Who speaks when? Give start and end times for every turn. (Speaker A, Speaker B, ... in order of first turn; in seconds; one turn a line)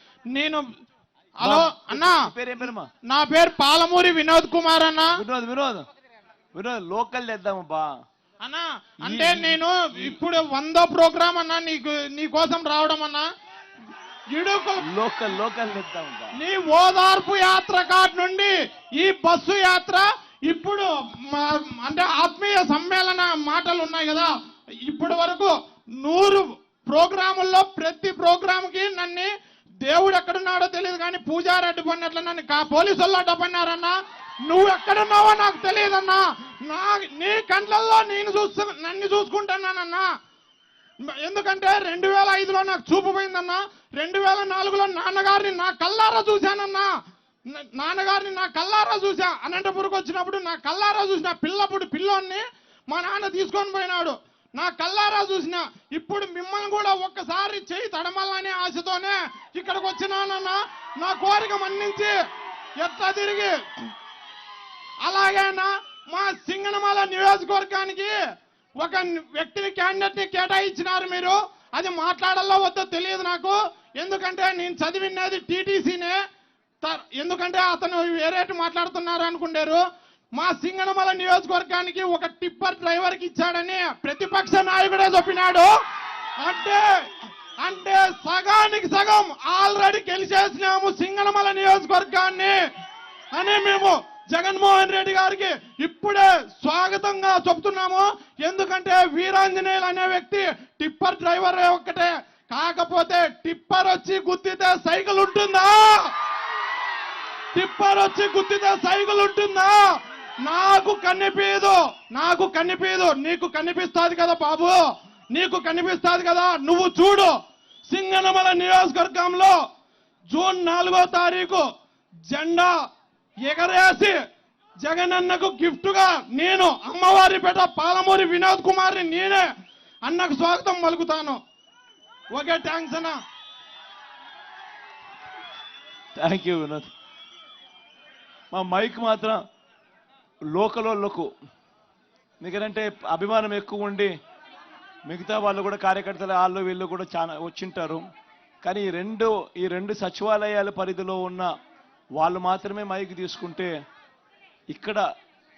Speaker A: 0.3-0.6
Speaker A: 1.4-2.2
Speaker B: 1.4-2.9
Speaker A: 3.1-5.2
Speaker B: 5.1-5.9
Speaker B: 6.5-7.9
Speaker A: 8.4-13.3
Speaker B: 9.0-10.2
Speaker A: 14.3-14.9
Speaker B: 14.8-16.3
Speaker A: 16.4-24.3
Speaker A: 24.9-29.3
Speaker A: 29.8-40.0
Speaker A: 41.1-46.9
Speaker A: 47.5-62.1
Speaker A: 62.8-63.5
Speaker A: 65.0-68.1
Speaker A: 68.8-76.2
Speaker A: 76.8-79.8
Speaker A: 80.3-85.7
Speaker A: 86.4-86.8
Speaker A: 87.6-92.5
Speaker A: 93.3-105.9
Speaker A: 107.5-109.8
Speaker A: 110.4-114.8
Speaker A: 115.3-117.3
Speaker A: 117.9-119.5
Speaker A: 120.3-121.6
Speaker A: 122.3-122.7
Speaker A: 123.5-124.1
Speaker A: 124.8-129.4
Speaker A: 130.1-131.4
Speaker A: 132.3-133.2
Speaker B: 136.2-136.9
Speaker B: 138.5-139.4
Speaker B: 140.6-141.3
Speaker B: 142.4-144.1
Speaker B: 145.1-148.0
Speaker B: 148.6-151.5
Speaker B: 152.2-153.7
Speaker B: 154.7-155.0